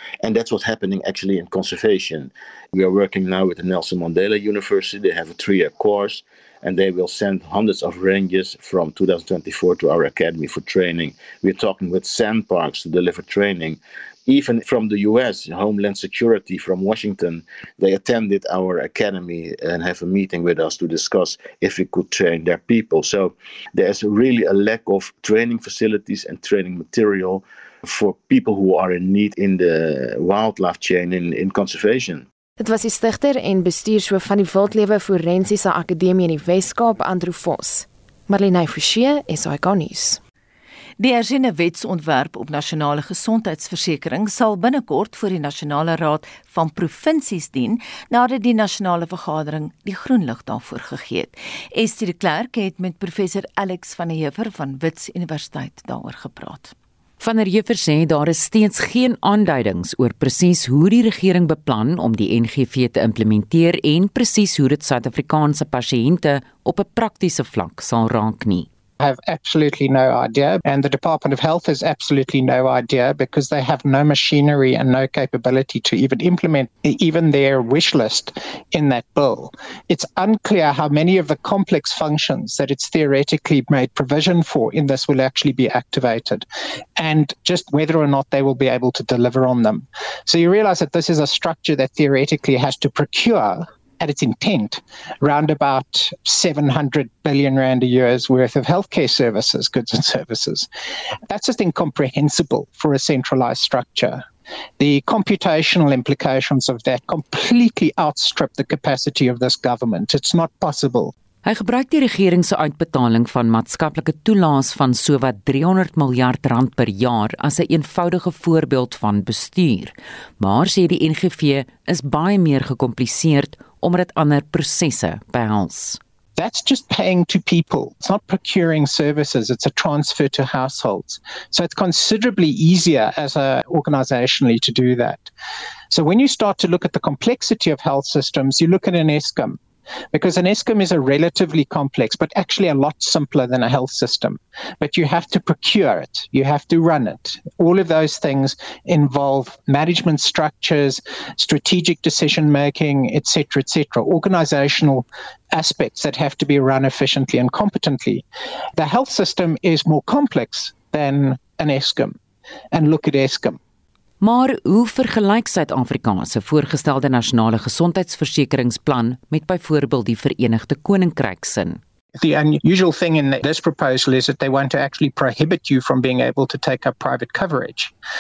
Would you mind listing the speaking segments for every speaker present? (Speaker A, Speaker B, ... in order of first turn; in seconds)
Speaker A: 0.2-32.2
Speaker B: 32.6-40.2
Speaker C: 41.0-56.7
Speaker D: 57.2-68.7, 111.4-126.0, 164.2-171.8
Speaker E: 69.0-86.5, 87.0-100.7, 101.3-104.2, 104.8-111.1, 126.4-135.3, 135.9-139.6, 140.1-162.2, 162.7-163.6, 172.2-177.9